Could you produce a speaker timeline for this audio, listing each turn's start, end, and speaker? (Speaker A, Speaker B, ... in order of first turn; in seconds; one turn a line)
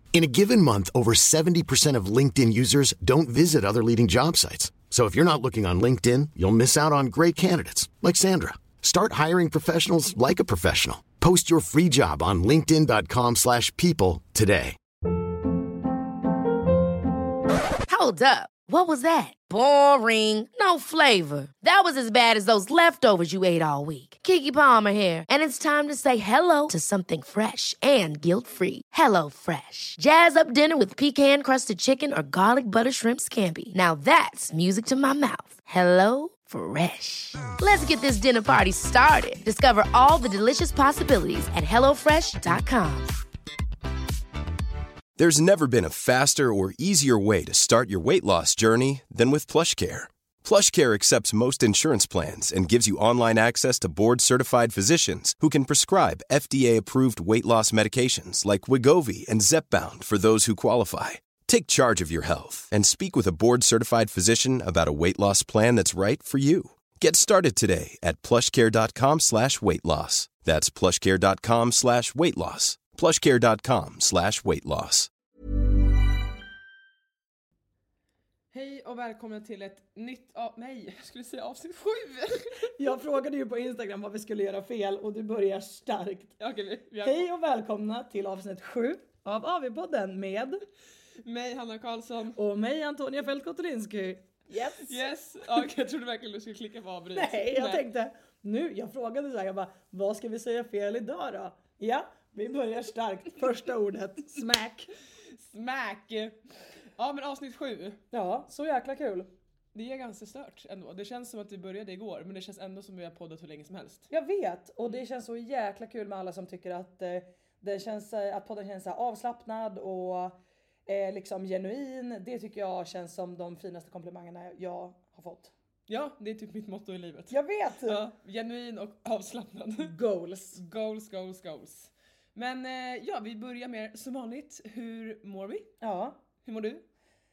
Speaker A: 0.1-14.8
Speaker B: 17.8-43.1
Speaker C: 45.2-75.1
Speaker D: 78.5-82.7
Speaker E: 82.6-86.4
Speaker D: 86.4-87.3
Speaker E: 87.0-90.6
Speaker D: 91.2-92.4
Speaker E: 92.3-95.0
Speaker D: 94.8-97.8
Speaker E: 97.1-104.9
Speaker D: 105.3-106.4
Speaker D: 107.0-108.0
Speaker E: 108.1-109.3
Speaker D: 109.7-114.1
Speaker E: 114.1-125.5
Speaker D: 125.9-129.9
Speaker E: 127.3-128.0
Speaker E: 129.8-130.6
Speaker D: 130.5-135.7
Speaker E: 135.8-136.2
Speaker D: 136.4-136.8